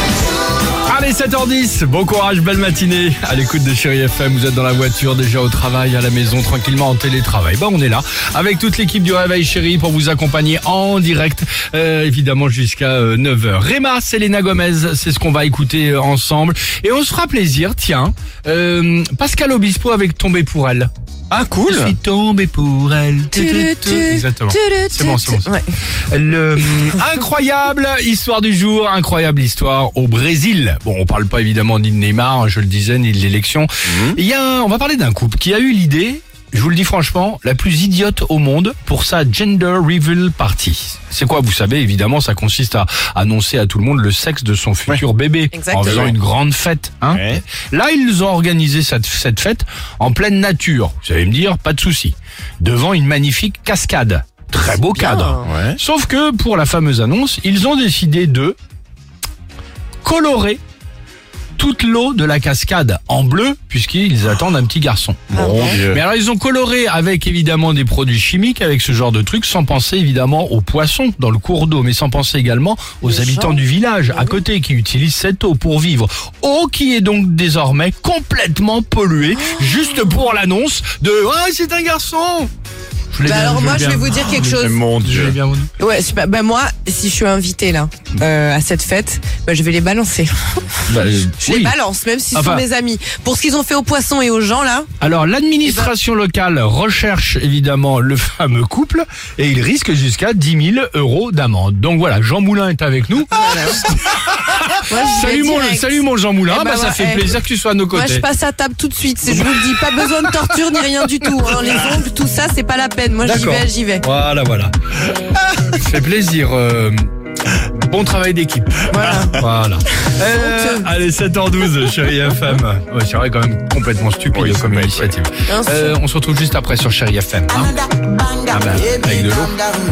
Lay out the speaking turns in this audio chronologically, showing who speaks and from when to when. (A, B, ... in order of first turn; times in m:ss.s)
0:00.9-0:20.9 A
0:21.3-0:21.9 B
0:21.7-0:25.5 A
0:23.3-0:25.7 C
0:26.1-0:58.6 A
0:33.9-0:34.1 B
0:45.5-0:46.1 C
0:45.9-0:46.1 B
0:47.1-0:47.4 B
0:54.8-0:55.5 C
0:55.4-0:55.8 B
1:00.0-1:00.6 A
1:01.6-1:22.5 A
1:05.3-1:05.8 C
1:05.3-1:06.0 B
1:13.0-1:13.6 C
1:19.6-1:20.0 C
1:23.1-1:25.7 A
1:23.2-1:24.8 C
1:24.6-1:25.4 B
1:25.8-1:30.8 C
1:30.9-1:31.7 A
1:31.4-1:34.9 C
1:32.3-1:32.6 A
1:35.0-1:48.2 A
1:35.6-1:35.9 C
1:43.3-1:44.0 C
1:44.8-1:47.4 C
1:47.9-1:54.0 C
1:49.3-1:49.7 A
1:53.2-2:07.8 A
1:58.9-1:59.4 C
2:00.2-2:00.9 C
2:04.3-2:05.1 B
2:05.5-2:06.0 C
2:08.5-2:09.6 A